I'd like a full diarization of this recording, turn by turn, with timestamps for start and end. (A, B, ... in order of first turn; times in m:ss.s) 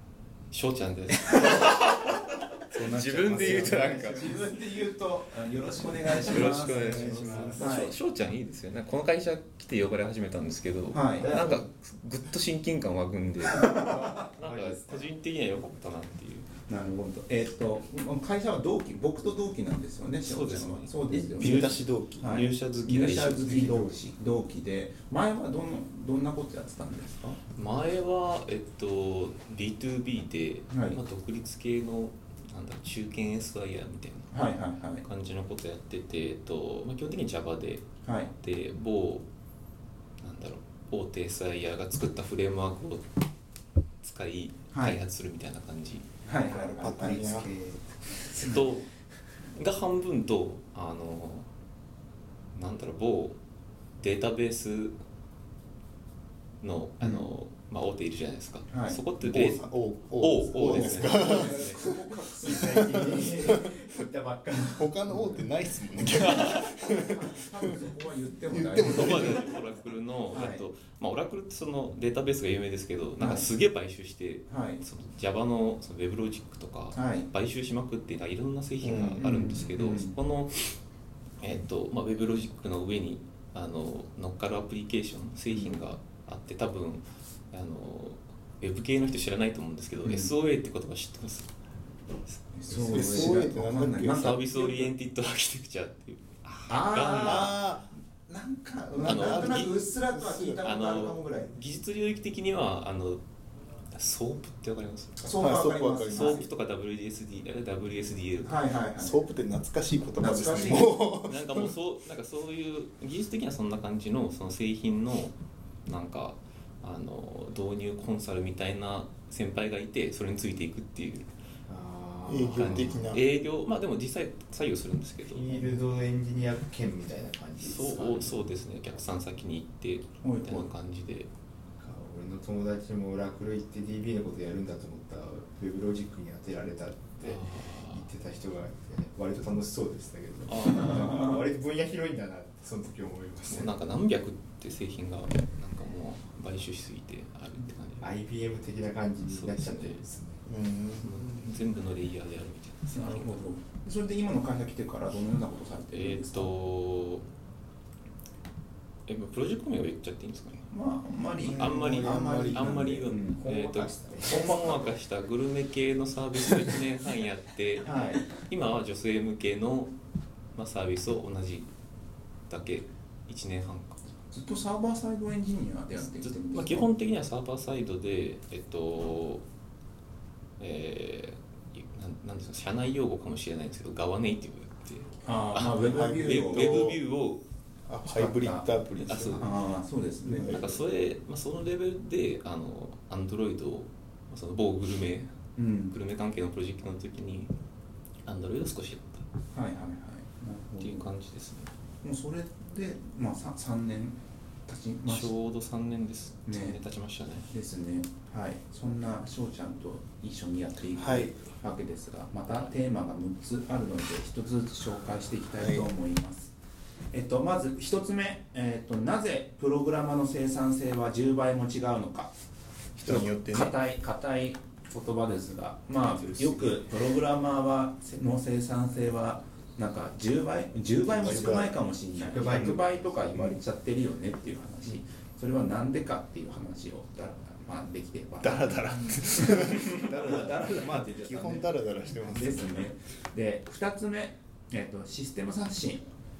0:00.5-0:04.4 A
0:02.7-0:07.8 B
0:03.4-0:03.9 C
0:05.2-0:06.9 C
0:06.2-0:16.5 A
0:06.8-0:07.6 D
0:07.6-0:07.9 C
0:10.9-0:11.4 C
0:11.2-0:11.7 B
0:13.7-0:15.1 B
0:16.7-0:27.4 C
0:20.2-0:23.9 A
0:21.1-0:22.4 D
0:27.5-0:34.4 A
0:30.7-0:31.0 C
0:34.3-0:35.0 C
0:35.0-0:39.3 A
0:38.0-0:38.3 C
0:40.2-0:43.0 A
0:44.0-0:46.0 A
0:44.7-0:45.0 C
0:46.2-0:47.2 C
0:46.5-0:48.0 B
0:46.7-0:47.5 D
0:48.3-0:48.7 C
0:48.4-0:48.9 A
0:49.5-0:51.5 A
0:52.5-0:53.4 A
0:54.0-0:55.0 A
0:56.6-1:01.8 A
0:58.7-0:59.0 C
0:59.2-1:03.7 D
1:00.6-1:03.3 C
1:00.9-1:01.2 B
1:02.4-1:05.4 B
1:04.8-1:07.9 D
1:06.2-1:06.7 A
1:06.8-1:09.4 C
1:08.5-1:09.5 D
1:08.8-1:20.8 A
1:10.3-1:10.6 C
1:13.2-1:13.5 C
1:14.5-1:14.8 C
1:16.9-1:17.3 C
1:18.8-1:19.6 D
1:19.2-1:20.1 C
1:21.4-1:31.5 A
1:25.5-1:25.8 C
1:30.0-1:30.3 C
1:32.3-1:33.4 A
1:32.6-1:34.4 C
1:32.9-1:33.2 B
1:32.9-1:34.8 D
1:34.0-1:37.6 A
1:36.7-1:37.6 C
1:37.2-1:37.9 D
1:38.2-1:41.5 C
1:38.9-1:40.7 D
1:39.0-1:39.7 A
1:40.6-1:43.2 A
1:43.9-1:45.2 A
1:45.2-1:46.4 C
1:45.4-1:46.4 D
1:46.1-1:48.6 A
1:48.4-1:49.2 C
1:49.0-1:51.7 D
1:50.2-1:51.0 C
1:51.2-2:01.3 A
2:01.7-2:03.1 B
2:02.3-2:03.2 D
2:02.5-2:05.7 A
2:05.2-2:08.4 B
2:07.6-2:11.3 A
2:10.2-2:10.7 C
2:11.8-2:23.7 B
2:17.2-2:18.1 A
2:20.4-2:21.3 A
2:20.8-2:21.4 C
2:23.5-2:28.1 A
2:28.0-2:30.4 B
2:29.2-2:30.0 A
2:30.5-2:31.2 D
2:31.0-2:33.5 A
2:32.9-2:36.5 C
2:35.9-2:37.2 A
2:39.1-2:40.7 A
2:40.7-2:41.8 C
2:41.4-2:43.0 D
2:41.5-2:49.9 A
2:42.0-2:44.8 B
2:42.9-2:43.4 C
2:44.2-2:44.9 D
2:47.8-2:48.3 C
2:50.5-2:51.7 A
2:52.5-2:54.0 A
2:54.3-2:56.9 C
2:55.9-2:59.4 A
3:00.6-3:07.4 A
3:05.2-3:06.8 C
3:05.9-3:07.0 D
3:07.9-3:09.5 D
3:08.0-3:08.7 C
3:09.0-3:09.5 A
3:09.3-3:10.7 C
3:10.3-3:10.7 D
3:10.4-3:15.3 A
3:15.6-3:16.0 C
3:15.9-3:17.5 A
3:18.2-3:19.3 A
3:19.5-3:21.1 C
3:20.8-3:21.7 A
3:22.0-3:25.3 C
3:25.0-3:27.5 A
3:26.5-3:26.8 C
3:27.5-3:36.5 C
3:30.9-3:31.4 D
3:35.6-3:35.9 D
3:37.1-3:42.3 C
3:43.0-3:43.7 D
3:43.0-4:01.7 C
3:46.3-3:46.7 D
3:51.2-3:51.8 D
3:52.2-3:52.9 B
3:58.4-4:02.9 D
4:02.2-4:06.0 C